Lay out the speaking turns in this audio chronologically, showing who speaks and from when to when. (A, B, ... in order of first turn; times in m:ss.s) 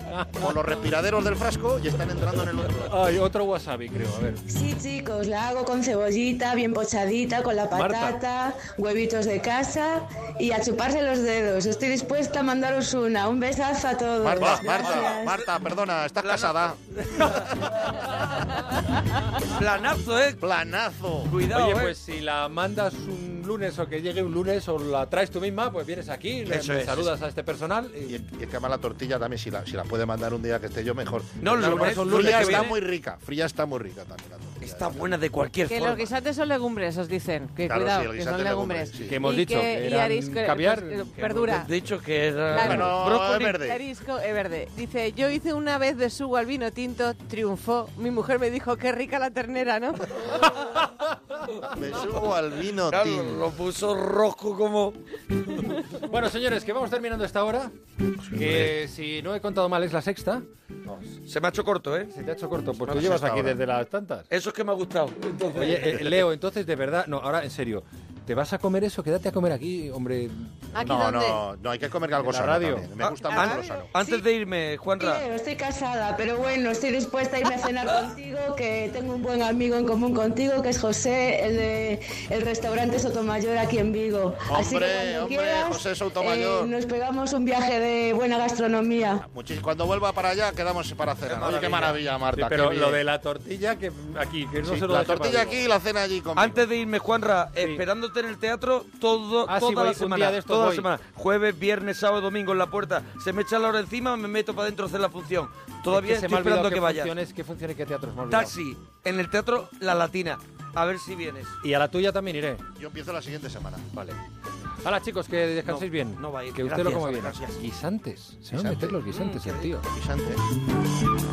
0:00.3-0:03.0 A
0:02.9-0:04.4 B
0:04.5-0:15.4 C
0:07.7-0:08.2 B
0:14.2-0:18.4 A
0:14.4-0:15.1 D
0:16.2-0:17.5 D
0:19.5-0:20.4 D
0:20.4-0:21.3 A
0:21.2-0:22.0 D
0:21.5-0:28.2 B
0:26.5-0:27.1 D
0:28.0-0:35.1 A
0:31.4-0:32.7 D
0:31.4-0:32.8 B
0:34.6-0:36.1 D
0:35.7-0:41.7 E
0:37.6-0:39.2 A
0:39.1-0:41.6 B
0:41.5-0:43.0 D
0:42.5-0:50.4 E
0:42.5-0:43.8 A
0:51.7-0:53.4 A
0:52.8-0:55.8 D
0:56.0-0:57.7 B
0:58.2-0:58.7 A
0:58.3-1:01.1 B
1:01.2-1:02.1 D
1:02.1-1:04.3 B
1:02.8-1:03.6 A
1:04.3-1:06.1 D
1:05.5-1:10.6 B
1:10.7-1:11.4 E
1:10.8-1:13.9 A
1:12.2-1:12.9 B
1:13.0-1:15.2 D
1:13.3-1:14.2 E
1:15.0-1:29.2 C
1:24.5-1:26.7 A
1:29.2-1:33.0 A
1:31.2-1:32.0 D
1:32.3-1:35.7 B
1:34.6-1:36.6 A
1:36.4-1:47.1 D
1:37.6-1:37.8 B
1:39.4-1:40.9 B
1:45.9-1:48.5 B
1:48.3-1:51.6 D
1:51.6-1:52.6 B
1:52.8-1:53.8 A
1:54.8-1:59.9 B
1:55.6-1:57.6 D
1:58.5-1:59.0 A
1:59.1-1:59.7 D
1:59.9-2:00.4 A